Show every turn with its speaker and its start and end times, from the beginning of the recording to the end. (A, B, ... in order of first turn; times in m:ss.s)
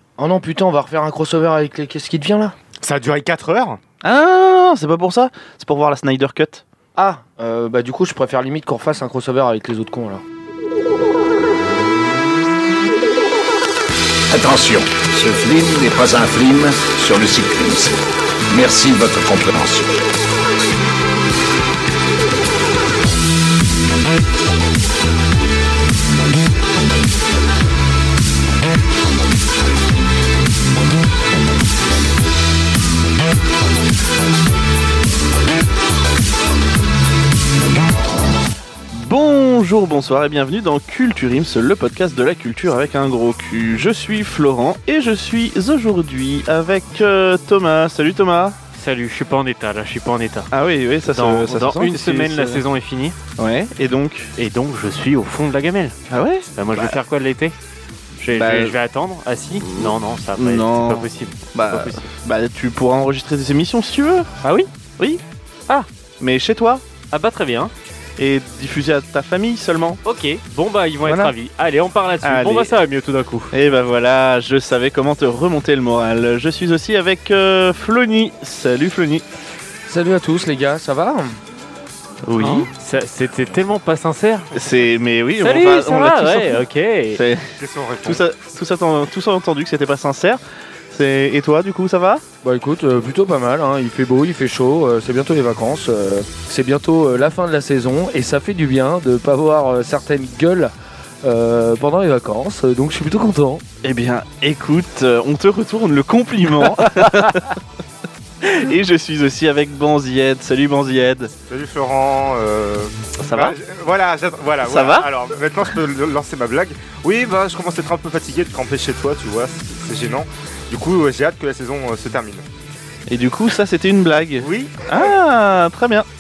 0:00.2-0:02.6 A
0:02.8-0:03.8 B
0:04.0-0:06.6 C
0:07.0-0:10.2 A
0:14.3-0:18.0 D
0:18.5-0:20.0 D
0:38.9-0:48.6 C
0:48.7-0:50.5 E
0:50.5-0:52.6 C
0:51.1-0:53.2 E
0:53.4-0:54.3 C
0:54.4-0:56.0 E
0:56.1-0:57.0 C
0:56.5-0:57.6 E
0:58.2-1:02.1 E
0:58.3-0:58.8 C
0:59.7-1:04.3 C
1:04.4-1:04.7 E
1:06.2-1:06.8 C
1:07.1-1:07.7 E
1:08.2-1:10.0 C
1:10.0-1:13.5 E
1:11.1-1:11.3 C
1:12.2-1:12.7 C
1:13.5-1:19.2 C
1:19.9-1:21.4 A
1:22.2-1:22.7 C
1:22.4-1:24.5 E
1:24.5-1:24.9 B
1:24.6-1:26.6 C
1:25.4-1:27.2 E
1:27.2-1:27.5 C
1:27.6-1:28.2 B
1:28.0-1:32.2 C
1:32.4-1:43.6 A
1:43.8-1:47.6 C
1:48.4-1:51.3 C
1:51.5-2:02.4 B
1:53.2-1:53.6 C
1:54.6-1:55.1 C
2:03.1-2:06.1 C
2:04.4-2:05.2 B